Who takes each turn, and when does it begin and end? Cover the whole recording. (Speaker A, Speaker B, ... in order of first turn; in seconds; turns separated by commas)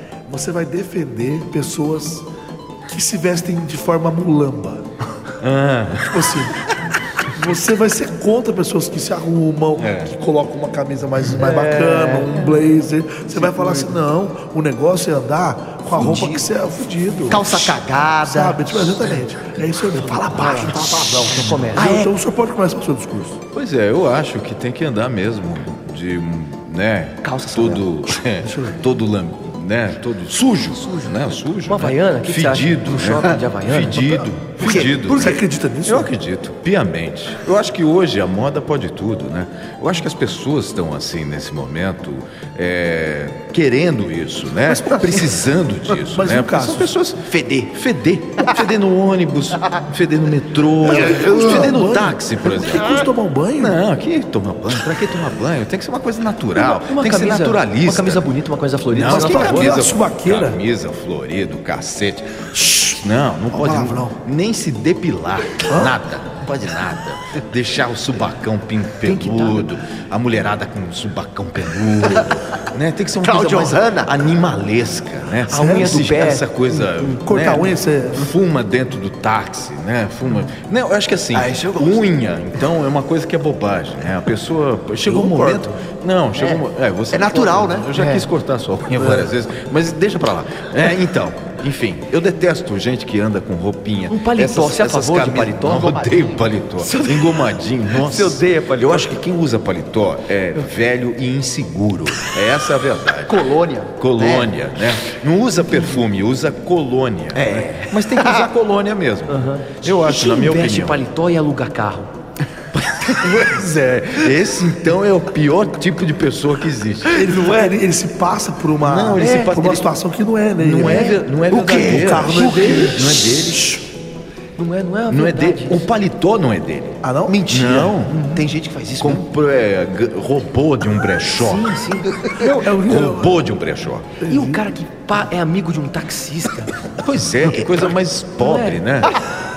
Speaker A: 0.3-2.3, Speaker A: 2.9-4.9, Speaker B: 5.4-6.4, Speaker A: 6.0-6.6, Speaker A: 7.3-23.4, Speaker B: 9.8-10.1, Speaker C: 11.4-12.6, Speaker C: 13.3-14.0, Speaker C: 16.0-16.4, Speaker D: 17.3-19.2, Speaker D: 19.9-22.1, Speaker C: 21.2-22.1, Speaker B: 23.5-53.0, Speaker D: 27.2-28.1, Speaker A: 28.4-28.8, Speaker D: 30.7-31.1, Speaker C: 31.7-34.2, Speaker A: 34.6-36.1, Speaker D: 34.6-35.4, Speaker A: 44.7-45.4, Speaker A: 46.0-46.9, Speaker D: 47.3-47.7, Speaker A: 50.8-53.8, Speaker D: 51.0-51.6, Speaker B: 53.6-58.3, Speaker C: 56.6-59.8, Speaker B: 58.9-111.0, Speaker A: 59.1-60.6, Speaker A: 62.5-63.0, Speaker A: 63.5-64.2, Speaker A: 65.7-66.0, Speaker C: 69.0-69.7, Speaker D: 73.2-74.1, Speaker C: 75.5-77.2, Speaker A: 75.5-76.1, Speaker A: 77.2-78.3, Speaker D: 81.3-82.1, Speaker A: 85.1-85.7, Speaker D: 86.4-86.6, Speaker D: 87.1-87.9, Speaker C: 88.0-88.3, Speaker C: 94.1-95.9, Speaker D: 95.6-96.5, Speaker C: 96.8-99.1, Speaker D: 103.3-104.5, Speaker D: 107.3-108.5, Speaker C: 109.3-112.1, Speaker B: 112.7-117.3, Speaker A: 117.1-121.2, Speaker C: 117.3-117.7, Speaker B: 118.8-119.9, Speaker C: 119.2-119.5, Speaker B: 120.6-123.8, Speaker C: 120.9-121.2, Speaker D: 121.5-123.6, Speaker A: 121.8-123.2, Speaker C: 124.6-125.8, Speaker B: 125.1-128.2, Speaker A: 127.0-127.4, Speaker D: 127.3-129.2, Speaker C: 128.1-128.4, Speaker B: 129.0-131.8, Speaker C: 131.3-132.2, Speaker A: 132.3-133.4, Speaker B: 132.8-134.2, Speaker A: 134.2-134.6, Speaker C: 134.3-136.7, Speaker B: 137.0-139.2, Speaker C: 138.4-138.8